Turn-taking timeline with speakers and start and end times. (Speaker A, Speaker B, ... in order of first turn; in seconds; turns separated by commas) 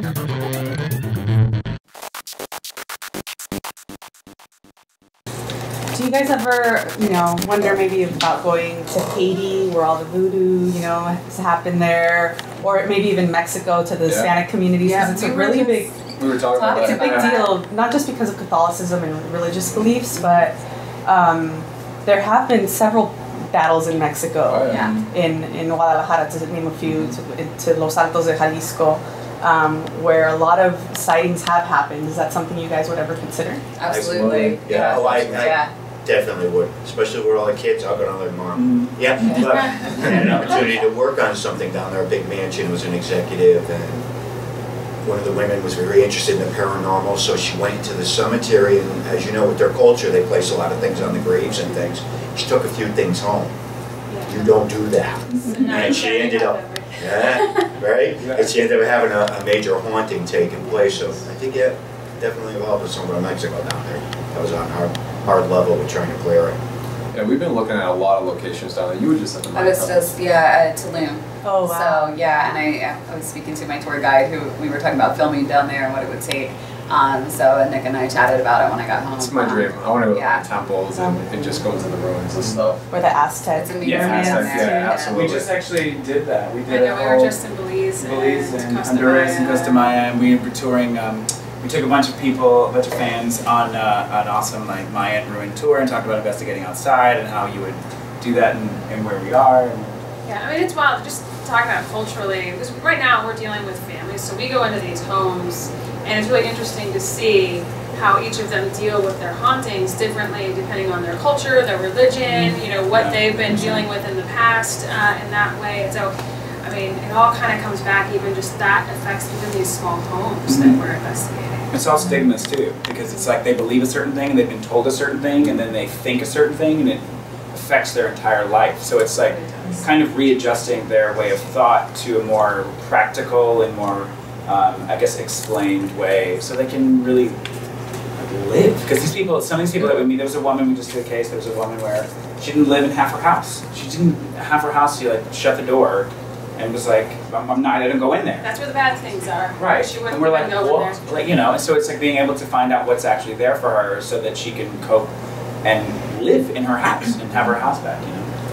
Speaker A: 5.9-16.0, Speaker B: 14.1-14.4, Speaker C: 14.8-17.6, Speaker D: 14.8-15.2, Speaker B: 16.2-17.5, Speaker A: 16.6-33.6, Speaker B: 24.5-25.1, Speaker C: 24.7-24.9, Speaker B: 26.8-27.1, Speaker C: 33.8-35.7, Speaker B: 33.9-35.5, Speaker E: 33.9-44.0, Speaker F: 38.5-39.4, Speaker E: 45.0-53.5, Speaker D: 54.1-54.5, Speaker E: 54.2-66.6, Speaker D: 55.3-57.7, Speaker B: 58.2-58.5, Speaker B: 67.1-70.1, Speaker C: 69.5-80.4, Speaker A: 71.4-72.2, Speaker B: 79.2-82.8, Speaker A: 82.9-85.0, Speaker C: 83.5-85.4, Speaker F: 83.8-87.4, Speaker B: 83.9-85.5, Speaker D: 86.7-89.9, Speaker F: 88.0-100.0, Speaker D: 100.3-116.1, Speaker F: 112.9-113.8, Speaker D: 116.6-121.7, Speaker F: 120.5-120.8, Speaker F: 121.7-127.0, Speaker F: 127.5-137.4, Speaker F: 138.2-148.5, Speaker B: 139.8-140.1, Speaker D: 148.4-151.0, Speaker F: 149.6-155.1, Speaker F: 155.6-158.3